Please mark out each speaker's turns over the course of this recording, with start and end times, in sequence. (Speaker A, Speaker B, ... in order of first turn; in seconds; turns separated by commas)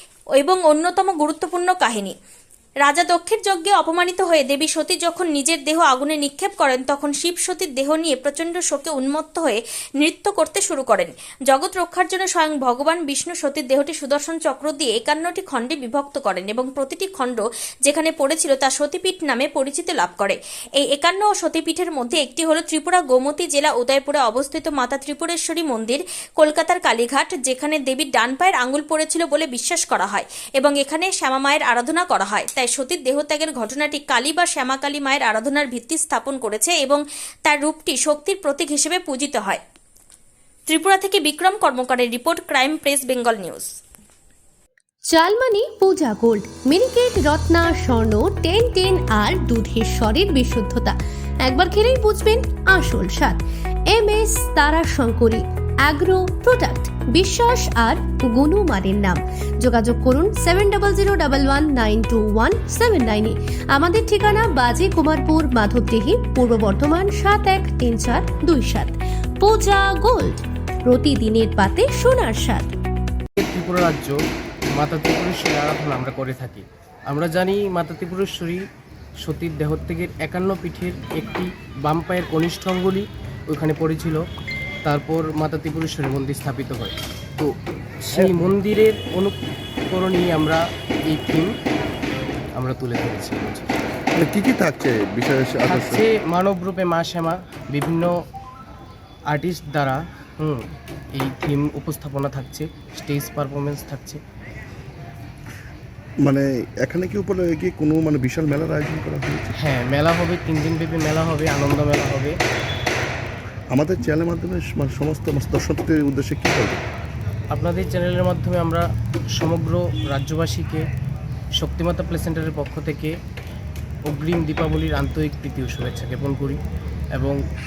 Speaker A: 0.3-2.1, Speaker A: 2.8-39.6, Speaker A: 40.7-43.7, Speaker B: 45.1-72.7, Speaker C: 73.4-74.2, Speaker C: 74.7-78.6, Speaker C: 79.2-84.2, Speaker C: 84.8-87.0, Speaker D: 87.4-88.5, Speaker C: 88.1-89.4, Speaker C: 89.9-91.5, Speaker C: 92.6-93.7, Speaker D: 94.2-96.0, Speaker C: 95.7-98.1, Speaker C: 99.3-104.2, Speaker D: 106.2-109.5, Speaker C: 109.6-112.3, Speaker D: 113.7-116.8, Speaker C: 117.5-118.8, Speaker C: 119.4-120.8, Speaker C: 121.6-123.1, Speaker C: 124.1-126.6